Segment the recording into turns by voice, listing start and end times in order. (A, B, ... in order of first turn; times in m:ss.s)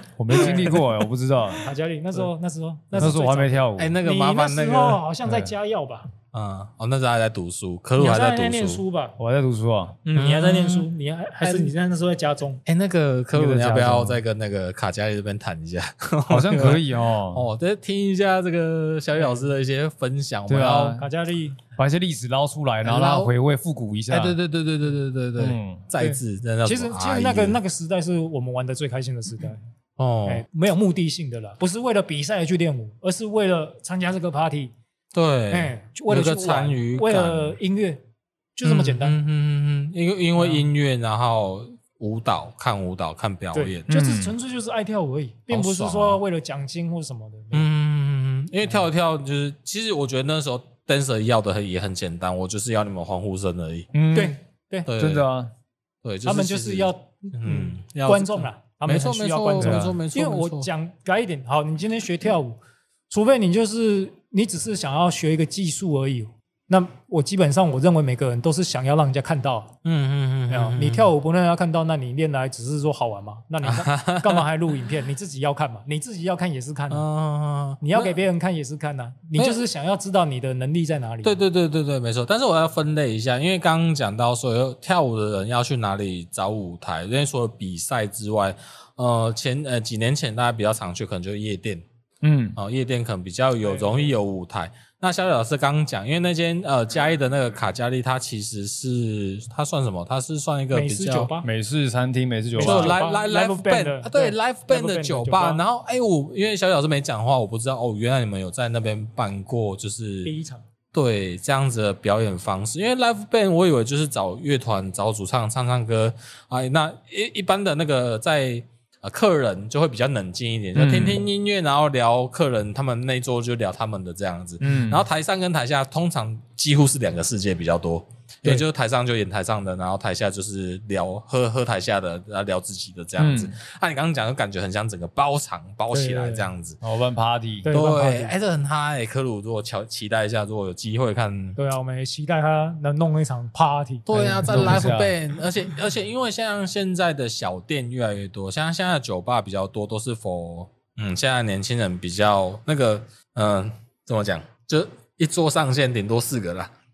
0:00.2-0:01.7 A
0:00.3-0:00.8 B
0:01.6-0:06.1 B
0:03.0-0:04.0 A
0:03.8-0:05.0 C
0:06.3-0:08.8 C
0:08.0-0:09.2 B
0:09.2-0:10.0 A
0:10.0-0:12.6 B
0:10.1-0:10.9 C
0:11.4-0:11.7 C
0:12.6-0:21.0 C
0:13.3-0:14.2 A
0:16.3-0:17.5 A
0:19.2-0:19.4 B
0:20.5-0:21.0 A
0:21.0-0:21.6 B
0:21.8-0:24.4 A
0:22.8-0:23.3 C
0:24.1-0:27.6 C
0:25.4-0:25.8 A
0:26.0-0:29.6 B
0:30.0-0:30.4 C
0:30.2-0:34.7 B
0:35.1-0:37.6 C
0:35.5-0:38.0 B
0:38.6-0:39.2 B
0:38.6-0:43.9 C
0:40.4-0:40.6 B
0:43.5-0:47.7 B
0:43.9-0:44.3 A
0:45.5-0:46.2 C
0:47.5-0:53.9 C
0:53.9-0:54.4 A
0:54.1-0:54.9 B
0:54.8-0:55.2 C
0:54.9-0:55.5 A
0:56.0-1:00.7 C
0:56.2-1:02.6 B
0:59.6-1:00.0 A
1:03.1-1:09.7 B
1:09.8-1:11.1 C
1:10.5-1:17.0 B
1:13.6-1:14.4 C
1:16.9-1:18.1 C
1:17.8-1:21.4 B
1:19.4-1:19.6 C
1:21.2-1:31.8 C
1:32.2-1:32.6 A
1:32.5-1:41.3 C
1:33.6-1:34.1 B
1:40.7-1:41.5 B
1:41.4-1:43.0 A
1:42.5-1:45.6 B
1:42.6-1:50.3 C
1:50.2-1:50.6 B
1:50.9-2:16.8 C
2:00.7-2:01.2 A
2:04.6-2:05.0 A
2:13.2-2:13.6 A
2:15.9-2:16.5 B
2:16.8-2:17.7 A
2:17.6-2:18.3 B
2:17.7-2:21.6 C
2:21.6-2:25.0 B
2:24.1-2:36.7 C
2:24.1-2:25.1 A